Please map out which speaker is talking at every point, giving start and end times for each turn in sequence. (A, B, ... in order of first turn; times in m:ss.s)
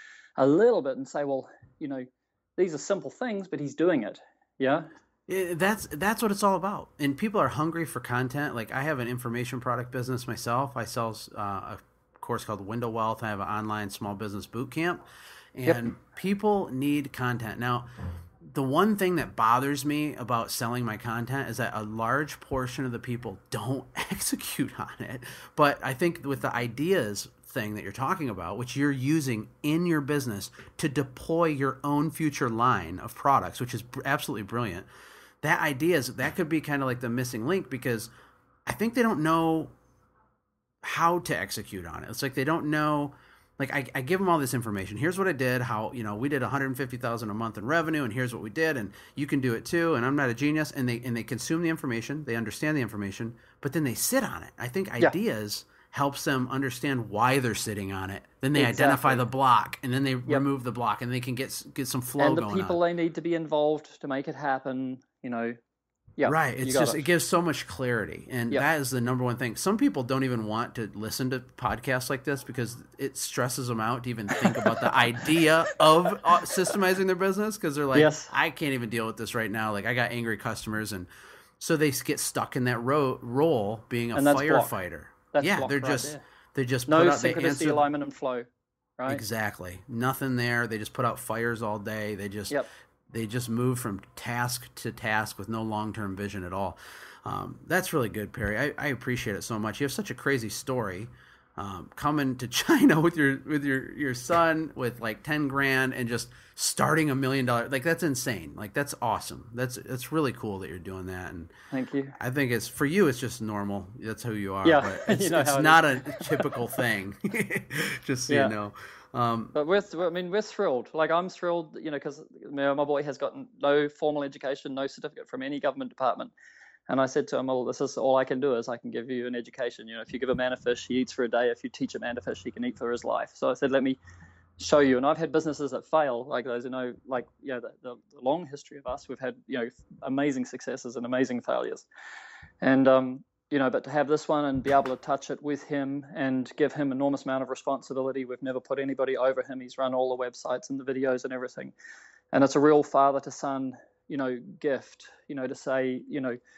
0:00.4-0:04.9 A
0:05.3-0:15.0 B
0:15.6-0:17.9 B
0:15.6-0:15.9 A
0:18.4-0:34.8 B
0:35.4-0:38.1 B
0:38.6-0:39.7 B
0:40.8-1:02.8 B
0:58.6-0:59.2 A
1:02.2-1:05.6 A
1:06.2-1:07.0 A
1:06.2-1:21.1 B
1:14.6-1:15.3 A
1:17.9-1:18.3 A
1:21.6-1:27.9 B
1:24.1-1:24.7 A
1:25.3-1:26.2 A
1:26.9-1:28.5 A
1:29.1-1:51.5 B
1:51.7-1:52.2 A
1:52.2-1:59.6 B
1:54.6-1:56.6 A
1:58.3-1:58.5 A
1:59.5-2:06.3 A
2:06.9-2:14.0 A
2:14.6-2:21.8 A
2:22.6-2:31.7 A
2:32.3-2:36.4 A